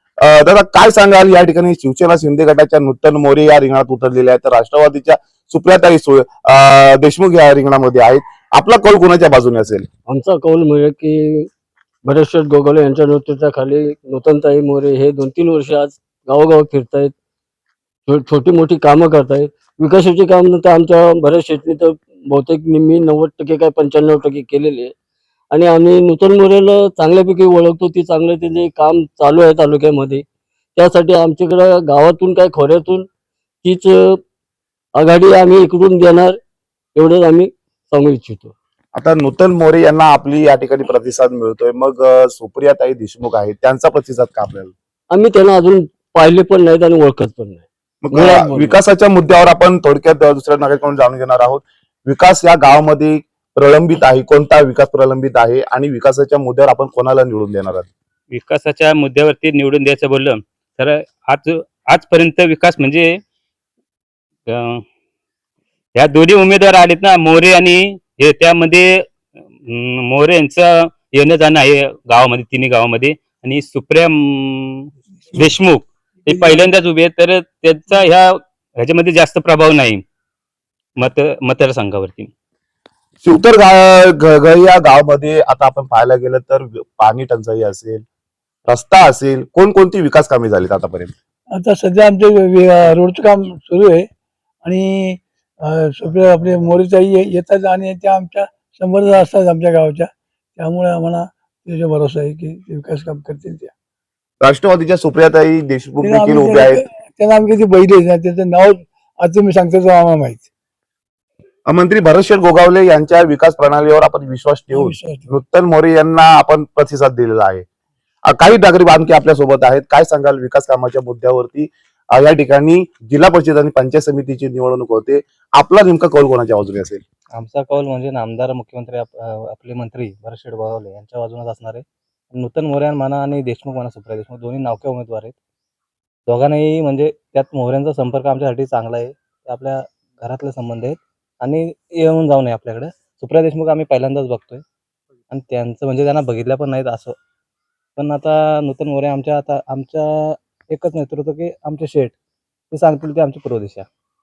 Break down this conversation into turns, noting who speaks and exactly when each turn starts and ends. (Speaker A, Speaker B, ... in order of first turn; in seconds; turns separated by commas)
Speaker A: 0.2-9.9, Speaker B: 10.1-11.5, Speaker B: 12.0-17.1, Speaker B: 18.1-24.9, Speaker B: 25.5-30.2, Speaker B: 30.8-33.1, Speaker B: 33.6-34.2, Speaker B: 34.9-36.4, Speaker B: 36.9-38.5, Speaker A: 38.9-44.7, Speaker B: 45.1-48.8, Speaker A: 48.0-57.9, Speaker C: 58.3-63.2, Speaker C: 64.5-64.8, Speaker C: 65.9-69.0, Speaker C: 69.7-80.0, Speaker D: 76.3-76.7, Speaker C: 81.0-82.3, Speaker A: 83.2-88.0, Speaker A: 88.7-91.1, Speaker D: 91.5-94.0, Speaker D: 94.6-103.7, Speaker A: 104.4-106.8, Speaker D: 106.0-110.5, Speaker A: 111.7-117.6, Speaker D: 114.7-115.3, Speaker A: 118.3-127.0, Speaker E: 127.3-135.3, Speaker E: 136.3-144.6, Speaker E: 145.3-147.2, Speaker E: 147.9-152.2, Speaker E: 152.7-153.9